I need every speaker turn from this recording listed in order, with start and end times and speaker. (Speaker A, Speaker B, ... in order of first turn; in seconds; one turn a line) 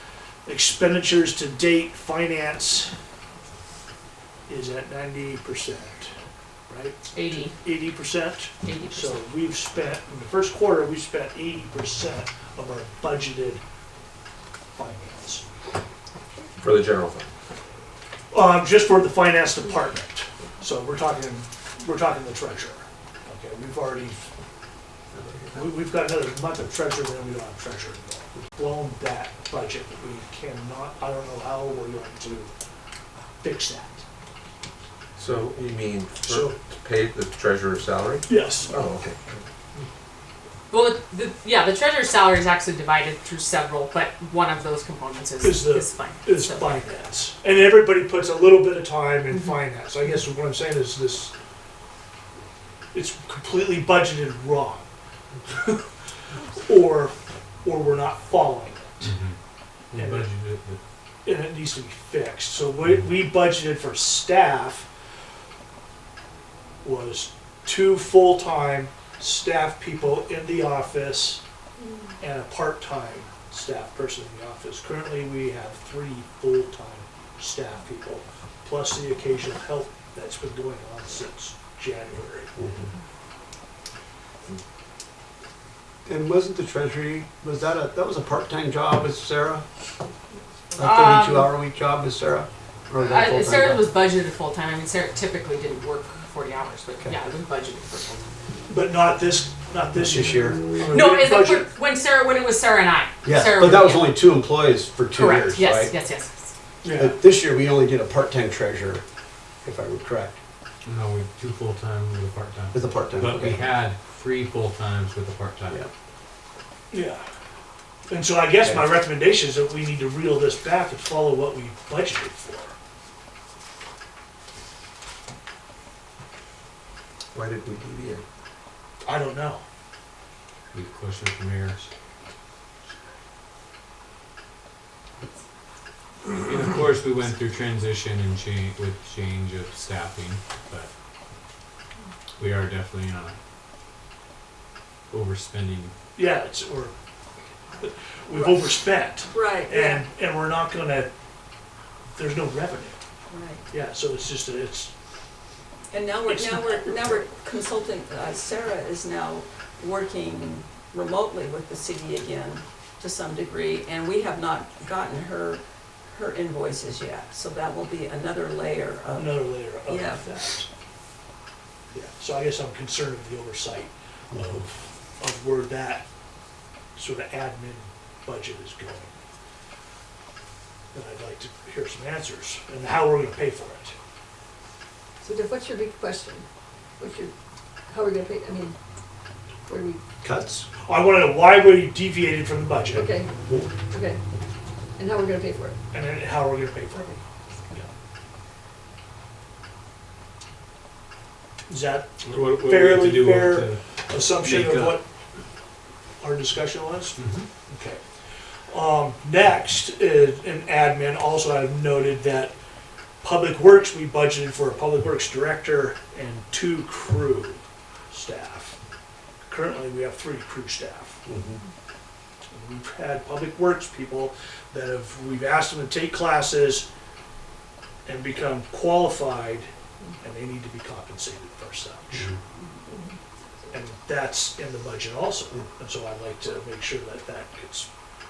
Speaker A: 0.5-2.9
Speaker A: 4.5-6.1
Speaker A: 6.7-13.6
Speaker B: 7.1-7.6
Speaker B: 8.6-9.2
Speaker A: 14.8-15.5
Speaker C: 16.6-17.3
Speaker A: 18.3-24.3
Speaker A: 25.5-32.5
Speaker A: 33.4-34.0
Speaker C: 35.2-39.4
Speaker A: 36.3-36.5
Speaker A: 38.3-38.8
Speaker B: 40.7-46.9
Speaker A: 45.4-51.3
Speaker B: 49.3-49.6
Speaker A: 52.9-54.9
Speaker A: 55.5-55.8
Speaker A: 56.5-59.1
Speaker D: 59.0-59.4
Speaker D: 59.9-60.8
Speaker A: 59.9-60.3
Speaker A: 61.2-64.9
Speaker A: 66.8-71.4
Speaker A: 72.2-82.5
Speaker E: 82.6-82.9
Speaker E: 86.1-89.6
Speaker E: 90.8-93.9
Speaker B: 90.8-91.5
Speaker B: 93.0-98.3
Speaker A: 98.7-101.7
Speaker E: 100.0-100.6
Speaker B: 100.9-104.2
Speaker E: 103.2-105.9
Speaker B: 105.1-106.3
Speaker A: 106.8-107.2
Speaker E: 106.9-109.0
Speaker E: 109.6-110.4
Speaker D: 110.9-115.8
Speaker E: 112.7-113.7
Speaker A: 116.9-117.2
Speaker A: 118.1-122.8
Speaker E: 118.6-119.0
Speaker C: 127.3-128.2
Speaker A: 129.1-129.6
Speaker D: 130.7-131.9
Speaker D: 136.3-140.9
Speaker D: 142.4-143.4
Speaker D: 145.1-145.9
Speaker A: 146.2-146.9
Speaker A: 147.8-151.1
Speaker F: 148.3-148.7
Speaker F: 149.2-150.0
Speaker A: 152.1-153.0
Speaker F: 153.3-153.6
Speaker A: 153.7-154.9
Speaker F: 155.9-170.6
Speaker A: 156.3-157.3
Speaker A: 169.2-170.7
Speaker A: 171.9-176.1
Speaker E: 174.3-174.7
Speaker A: 177.0-179.1
Speaker A: 180.9-184.0
Speaker G: 185.2-186.4
Speaker G: 187.0-187.3
Speaker G: 187.9-188.8
Speaker G: 189.7-190.0
Speaker E: 190.2-190.7
Speaker A: 190.8-193.1
Speaker G: 192.9-193.3
Speaker E: 193.5-193.7
Speaker G: 193.8-194.2
Speaker G: 195.0-195.8
Speaker A: 195.9-197.2
Speaker A: 201.7-205.1
Speaker D: 202.2-205.0
Speaker A: 206.2-208.0
Speaker D: 207.2-207.5
Speaker A: 208.7-212.6
Speaker A: 213.2-218.8
Speaker A: 219.5-221.2
Speaker E: 221.3-221.6
Speaker A: 222.5-226.9
Speaker A: 228.1-229.7
Speaker A: 230.2-232.3
Speaker G: 232.9-233.2
Speaker A: 233.7-237.9